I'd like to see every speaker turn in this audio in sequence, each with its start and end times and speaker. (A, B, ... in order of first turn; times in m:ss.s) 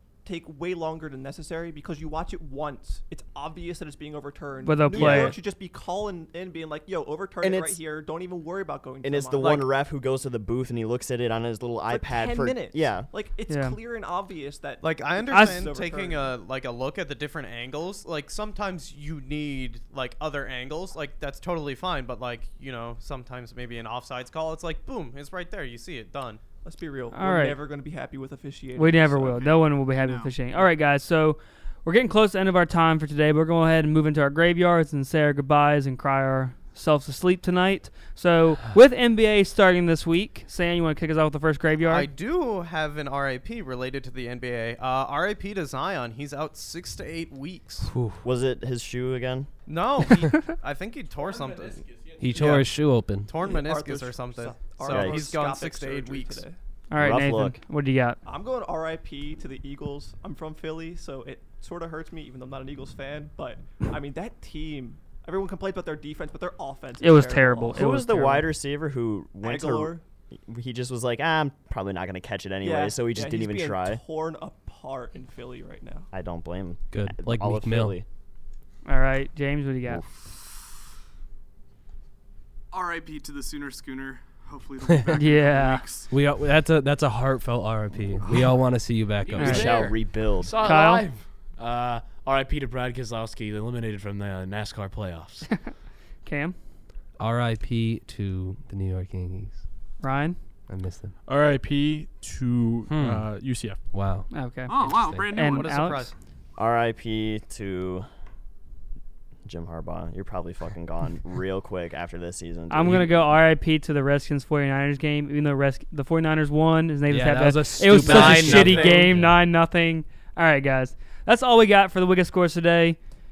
0:00.2-0:09.7 A
0:04.6-0:05.4 B
0:04.9-0:05.4 C
0:07.4-0:07.8 C
0:09.0-0:13.1 C
0:09.4-0:09.6 D
0:11.9-0:16.3 A
0:13.5-0:13.8 B
0:14.8-0:26.4 D
0:15.3-0:15.6 B
0:26.6-0:29.4 A
0:27.1-0:27.6 B
0:28.8-0:42.1 B
0:29.2-0:30.3 E
0:41.8-0:47.9 D
0:47.9-0:48.2 F
0:48.2-0:49.5 C
0:49.7-0:52.6 D
0:51.2-0:52.6 G
0:52.2-0:53.3 F
0:53.2-0:56.4 D
0:53.4-0:56.6 A
0:54.9-0:55.3 C
0:56.9-0:58.2 B
0:57.0-0:57.6 C
0:58.2-1:08.0 A
1:07.0-1:08.5 B
1:07.7-1:10.0 C
1:09.4-1:10.0 A
1:10.5-1:14.0 C
1:12.6-1:16.1 A
1:16.1-1:18.0 C
1:16.9-1:18.0 F
1:18.8-1:20.0 B
1:22.7-1:26.1 E
1:25.2-1:25.8 B
1:26.1-1:30.0 F
1:29.3-1:35.5 H
1:29.4-1:29.7 B
1:29.4-1:30.8 C
1:30.6-1:31.0 B
1:36.2-1:36.5 B
1:37.2-1:39.6 F
1:40.0-1:40.4 B
1:40.7-1:41.1 F
1:41.3-1:43.8 G
1:42.9-1:43.3 F
1:43.9-1:45.3 F
1:44.3-1:44.7 B
1:44.7-1:46.0 E
1:45.2-1:46.1 B
1:45.4-1:46.1 D
1:46.6-1:48.0 C
1:49.4-1:53.4 C
1:52.7-2:03.0 B
1:57.1-1:59.4 F
1:57.9-1:59.1 H